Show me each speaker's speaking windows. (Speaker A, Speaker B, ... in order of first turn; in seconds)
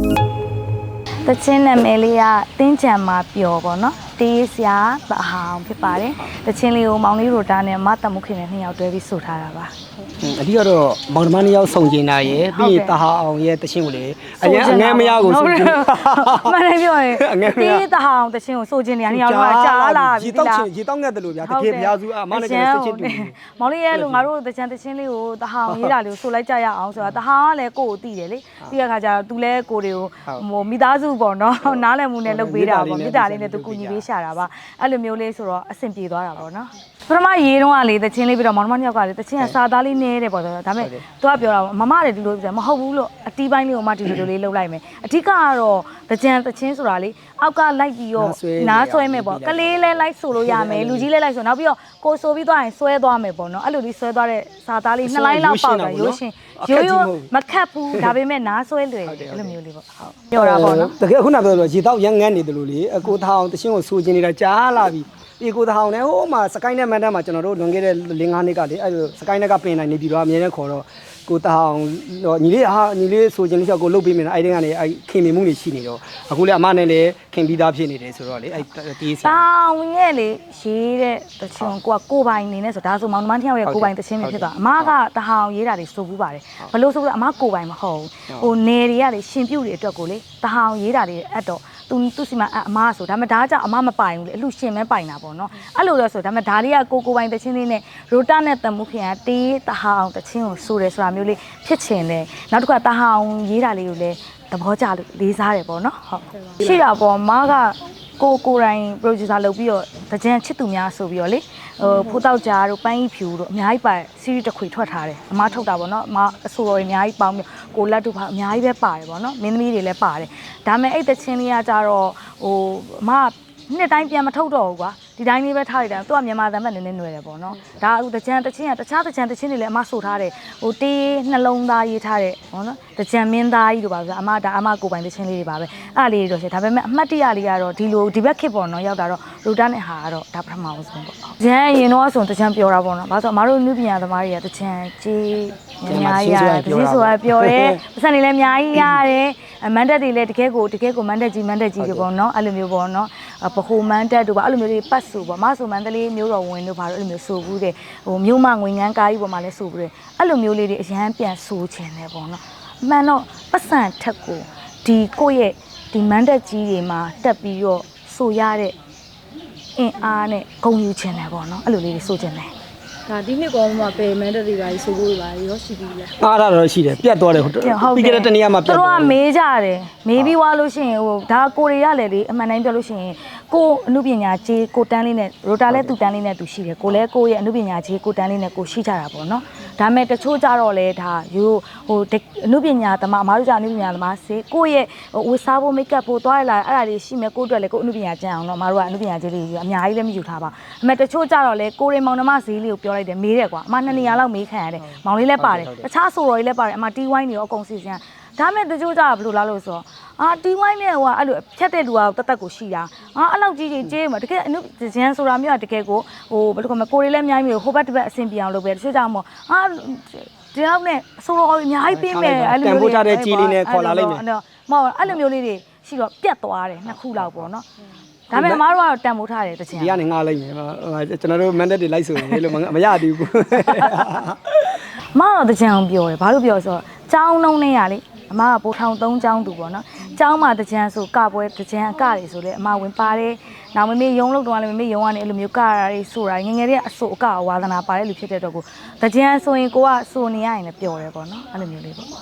Speaker A: 1.2-9.7, 12.3-13.0, 14.4-20.7, 21.4-60.9, 79.2-168.7, 169.8-172.5, 177.6-227.7, 228.3-230.0, 232.2-232.5, 233.7-234.1, 235.1-252.1
Speaker B: 10.2-17.9, 19.1-23.3, 23.9-24.3, 25.7-26.0, 31.6-34.1, 48.2-51.1, 55.0-57.3, 59.0-59.6, 60.3-79.5, 83.6-84.9, 145.9-147.8, 151.8-152.1, 176.2-179.2, 204.9-205.9, 221.9-224.2, 227.1-227.5, 228.3-228.6, 229.7-234.8
Speaker C: 173.1-176.1